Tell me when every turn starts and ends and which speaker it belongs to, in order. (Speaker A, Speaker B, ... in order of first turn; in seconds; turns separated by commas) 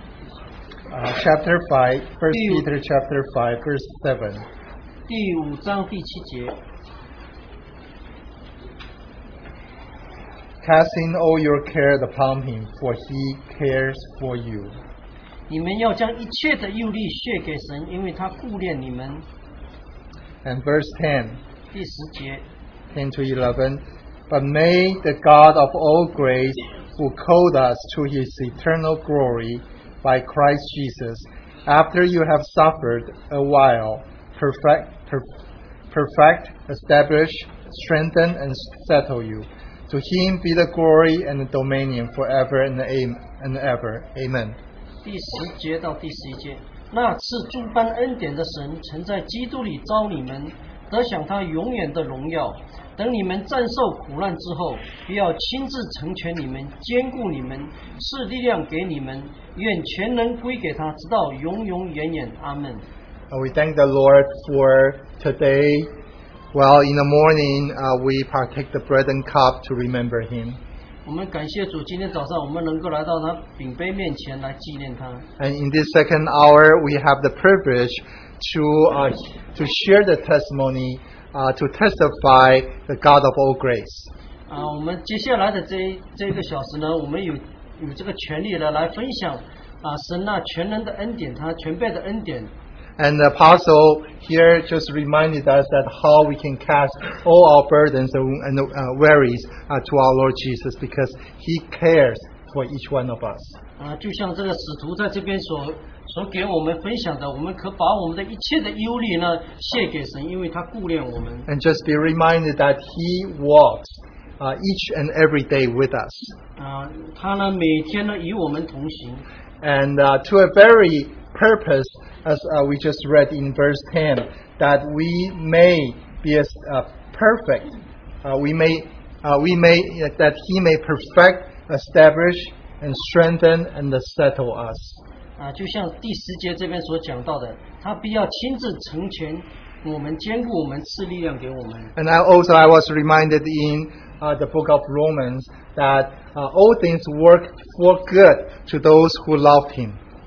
Speaker A: 0.9-4.5, Speaker B: 2.3-2.6, Speaker B: 5.1-6.5, Speaker A: 10.6-14.8, Speaker B: 15.5-19.2, Speaker A: 20.4-21.4, Speaker B: 21.7-22.4, Speaker A: 22.9-35.2, Speaker A: 35.9-44.6, Speaker B: 45.0-62.8, Speaker A: 63.3-65.9, Speaker A: 66.5-70.6, Speaker B: 71.0-75.2, Speaker A: 75.4-84.1, Speaker B: 84.5-92.5, Speaker A: 93.0-103.6, Speaker B: 103.8-111.5, Speaker A: 111.5-116.3, Speaker B: 116.6-119.2, Speaker A: 119.6-135.0, Speaker B: 135.4-141.9, Speaker A: 141.9-150.0